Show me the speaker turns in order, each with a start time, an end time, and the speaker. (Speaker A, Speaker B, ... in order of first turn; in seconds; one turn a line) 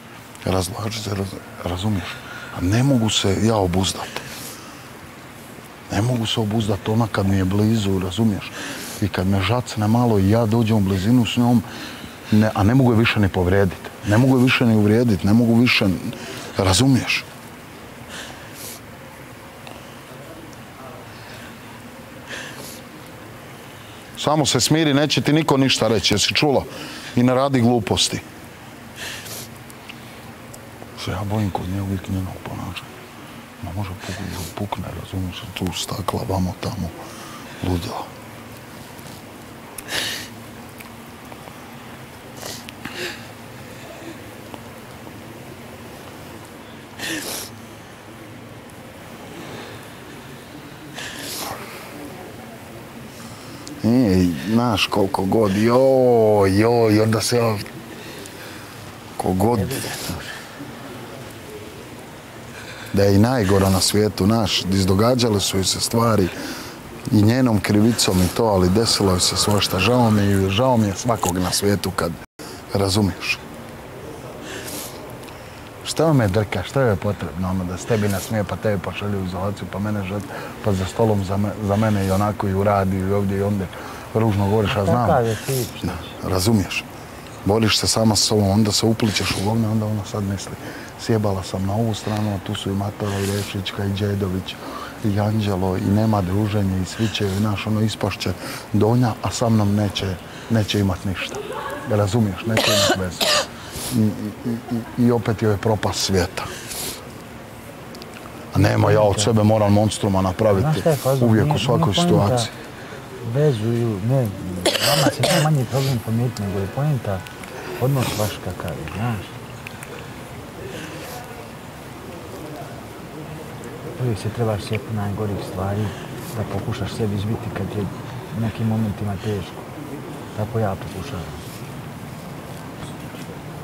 Speaker A: 0.4-4.4
Speaker A: 5.9-11.7
Speaker A: 12.3-17.3
Speaker A: 24.2-28.2
Speaker A: 31.0-32.9
Speaker A: 33.6-37.0
Speaker A: 37.6-38.1
Speaker A: 53.8-57.7
Speaker A: 59.2-59.9
Speaker B: 59.5-60.3
Speaker A: 62.9-66.3
Speaker A: 67.1-72.2
Speaker A: 72.7-73.4
Speaker A: 75.8-85.2
Speaker B: 84.7-86.1
Speaker A: 85.8-86.9
Speaker A: 87.5-106.5
Speaker A: 108.5-112.5
Speaker B: 108.6-109.3
Speaker B: 110.5-112.5
Speaker B: 113.2-117.2
Speaker B: 117.8-119.4
Speaker B: 124.0-129.7
Speaker B: 130.3-131.4